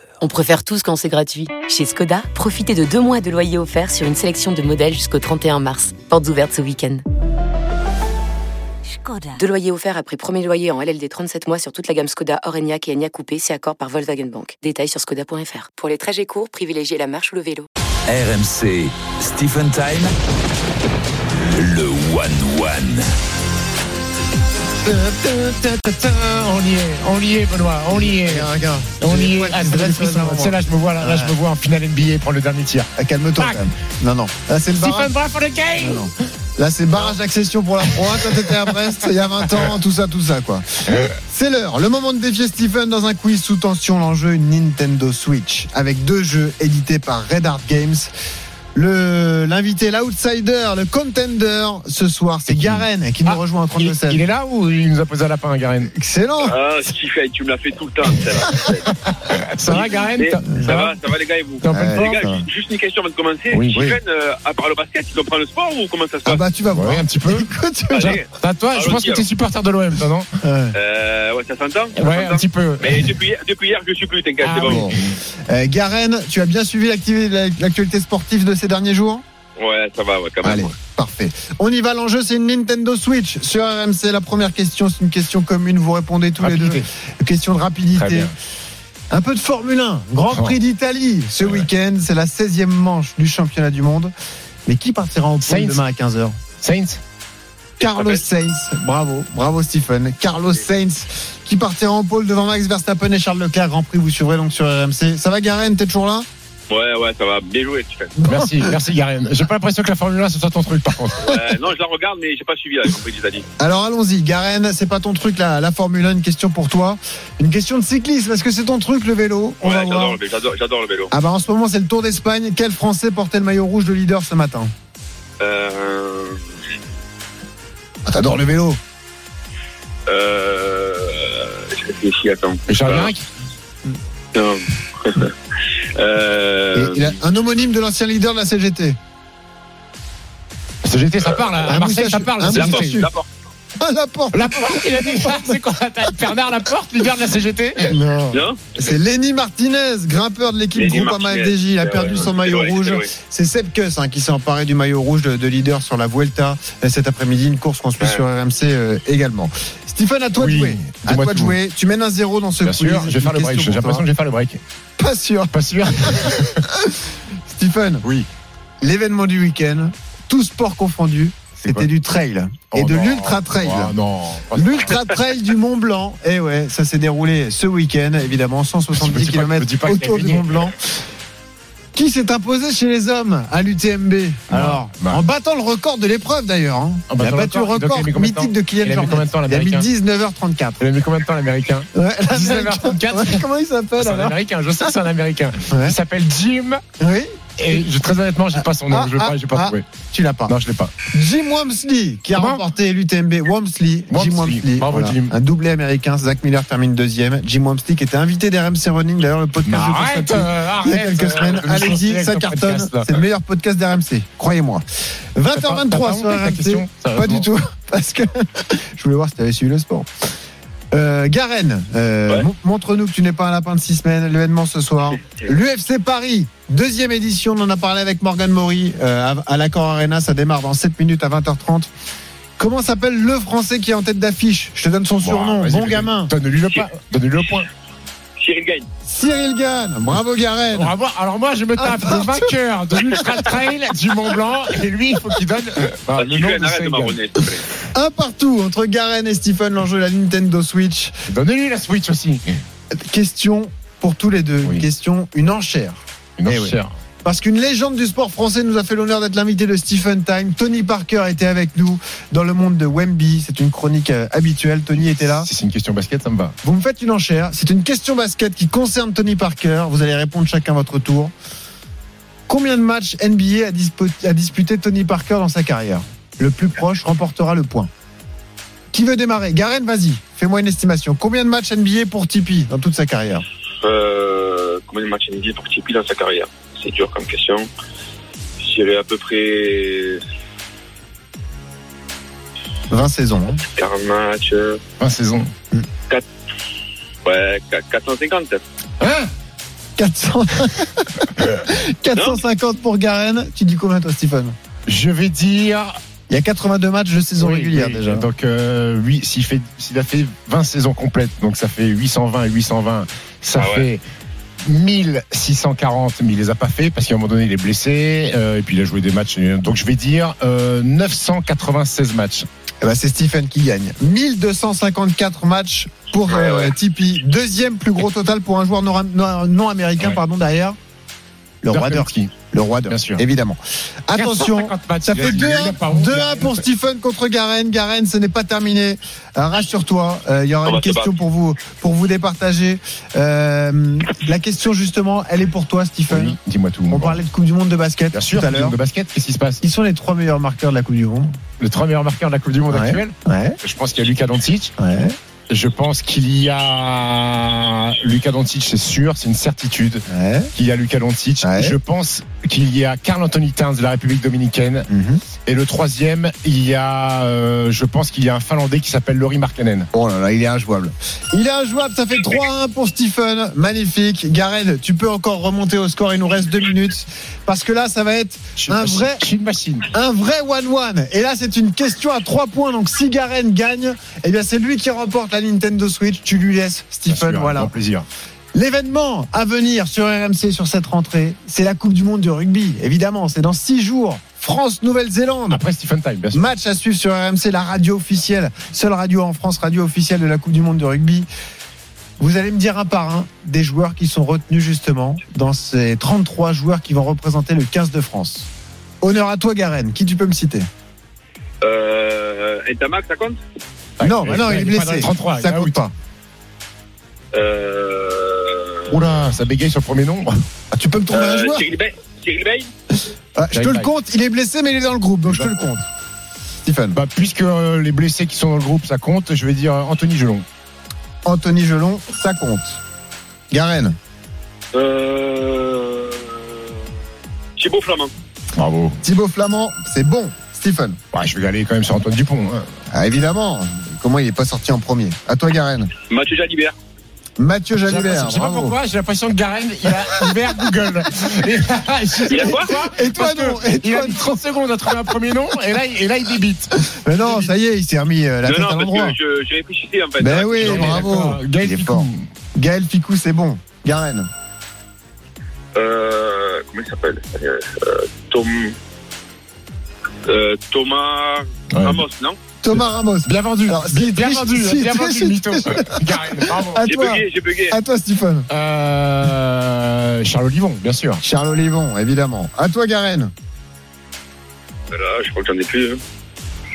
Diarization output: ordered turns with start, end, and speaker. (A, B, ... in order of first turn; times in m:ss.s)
0:00.2-0:07.0 A
0:09.4-0:17.7 A
0:18.1-0:20.1 B
0:21.5-0:23.1 B
0:24.9-0:33.7 C
0:27.9-0:31.4 D
0:33.0-0:35.1 D
0:34.7-0:36.1 C
0:35.8-0:48.1 D
0:37.9-0:38.5 C
0:48.8-0:54.2 D
0:52.5-0:55.9 C
0:55.9-0:56.6 D
0:56.4-0:58.9 E
0:58.6-1:00.9 C
0:59.7-1:06.4 E
1:01.6-1:02.2 C
1:01.7-1:02.4 D
1:03.5-1:03.8 C
1:03.7-1:04.0 D
1:06.2-1:08.2 D
1:06.7-1:07.4 C
1:07.9-1:09.2 E
1:08.0-1:10.3 C
1:10.4-1:10.8 D
1:10.7-1:14.9 E
1:12.0-1:13.1 C
1:14.4-1:15.0 C
1:14.6-1:19.2 D
1:19.6-1:20.8 E
1:20.4-1:28.3 D
1:26.4-1:26.9 C
1:27.9-1:28.3 C
1:29.1-1:34.1 D
1:30.3-1:30.6 C
1:34.7-1:36.4 D
1:35.4-1:35.8 C
1:36.6-1:37.0 C
1:37.8-1:38.2 E
1:37.8-1:46.2 D
1:46.7-1:48.2 E
1:48.2-1:48.7 D
1:48.2-1:51.4 C
1:51.2-1:53.4 E
1:53.6-2:00.2 D
1:59.6-2:01.1 E
2:01.1-2:04.7 D
2:05.4-2:06.4 E
2:08.1-2:08.8 D
2:10.1-2:13.1 E
2:12.7-2:13.2 C
2:14.3-2:15.3 E
2:16.0-2:17.2 E
2:16.7-2:19.0 D
2:20.8-2:23.1 C
2:21.6-2:23.1 D
2:22.5-2:23.3 E
2:23.8-2:25.6 D
2:24.3-2:28.0 C
2:27.9-2:44.1 D
2:28.3-2:28.6 E
2:30.8-2:33.1 E
2:40.4-2:41.6 C
2:42.6-2:44.6 C
2:45.0-2:47.0 D
2:45.5-2:46.6 C
2:47.5-2:48.1 D
2:48.8-2:54.0 D
2:51.6-2:51.9 C
2:52.7-2:55.1 C
2:54.5-3:00.8 D
2:58.9-3:00.7 C
3:02.0-3:10.8 D
3:04.5-3:05.2 C
3:07.1-3:09.9 C
3:10.8-3:16.8 C
3:12.0-3:15.0 D
3:15.7-3:16.0 D
3:17.0-3:17.9 D
3:17.6-3:19.9 C
3:18.6-3:20.6 D
3:20.5-3:20.9 C
3:21.1-3:34.8 D
3:22.3-3:22.7 C
3:24.1-3:25.3 C
3:29.7-3:33.1 C
3:35.3-3:40.1 D
3:35.5-3:37.5 C
3:40.9-3:51.9 D
3:52.6-3:56.3 D
3:55.2-3:57.7 C
3:58.4-3:58.9 E
3:59.1-4:00.9 D
4:00.7-4:07.2 C
4:01.8-4:02.5 D
4:06.2-4:07.7 E
4:07.9-4:11.1 D
4:11.3-4:12.4 C
4:13.0-4:25.5 D
4:16.4-4:16.9 C
4:25.0-4:26.6 C
4:26.6-4:31.3 D
4:32.5-4:37.9 D
4:38.9-4:43.4 D
4:43.8-4:47.6 E
4:48.6-4:50.2 E
4:52.9-4:53.6 D
4:53.7-4:54.8 E
4:55.0-4:55.5 C
4:57.2-4:58.6 E
4:59.0-4:59.3 C
5:00.0-5:04.5 D
5:04.9-5:06.0 C
5:06.3-5:08.3 D
5:07.4-5:14.0 C
5:13.6-5:13.9 E
5:14.6-5:22.5 C
5:22.8-5:30.8 D
5:26.3-5:26.7 E
5:31.6-5:46.4 D
5:31.7-5:32.3 C
5:32.9-5:33.2 C
5:34.1-5:36.6 C
5:40.6-5:41.1 E
5:46.1-5:47.2 C
5:46.9-5:48.8 D
5:48.1-5:49.6 C
5:49.6-5:51.3 D
5:51.6-5:54.7 C
5:52.7-5:53.6 D
5:54.8-5:55.1 D
5:55.5-6:00.0 C
6:00.1-6:00.5 D
6:00.5-6:04.9 C
6:01.4-6:01.8 D
6:04.9-6:05.2 D
6:05.4-6:09.9 C
6:09.9-6:19.2 D
6:18.6-6:19.9 C
6:19.9-6:27.7 D
6:27.1-6:28.1 C
6:28.5-6:35.6 D
6:35.5-6:36.4 C
6:36.3-6:41.3 D
6:42.2-6:48.5 D
6:49.0-6:50.7 D
6:51.6-6:53.4 E
6:54.0-6:55.9 C
6:54.0-6:55.9 D
6:57.3-6:59.1 E
6:58.9-7:00.3 C
7:00.7-7:01.7 D
7:01.1-7:02.7 E
7:03.4-7:05.8 D
7:03.5-7:03.9 C
7:05.3-7:05.8 C
7:06.6-7:07.0 D
7:06.9-7:10.4 C
7:11.2-7:12.8 D
7:13.5-7:14.0 D
7:14.7-7:16.5 E
7:17.6-7:18.1 E
7:18.6-7:19.0 C
7:19.0-7:21.0 D
7:21.1-7:22.6 C
7:22.9-7:25.9 D
7:26.1-7:26.8 E
7:27.4-7:28.8 D
7:27.8-7:37.5 C
7:32.2-7:34.3 D
7:32.3-7:32.7 E
7:36.9-7:39.2 D
7:38.4-7:41.1 E
7:40.2-7:44.3 D
7:40.6-7:42.3 C
7:45.8-7:48.8 E
7:50.2-7:52.4 E
7:51.7-7:52.0 C
7:52.6-7:58.5 D
7:52.7-7:56.9 C
7:56.8-7:57.8 E
7:58.5-8:01.2 C
8:01.2-8:03.3 D
8:04.9-8:06.0 E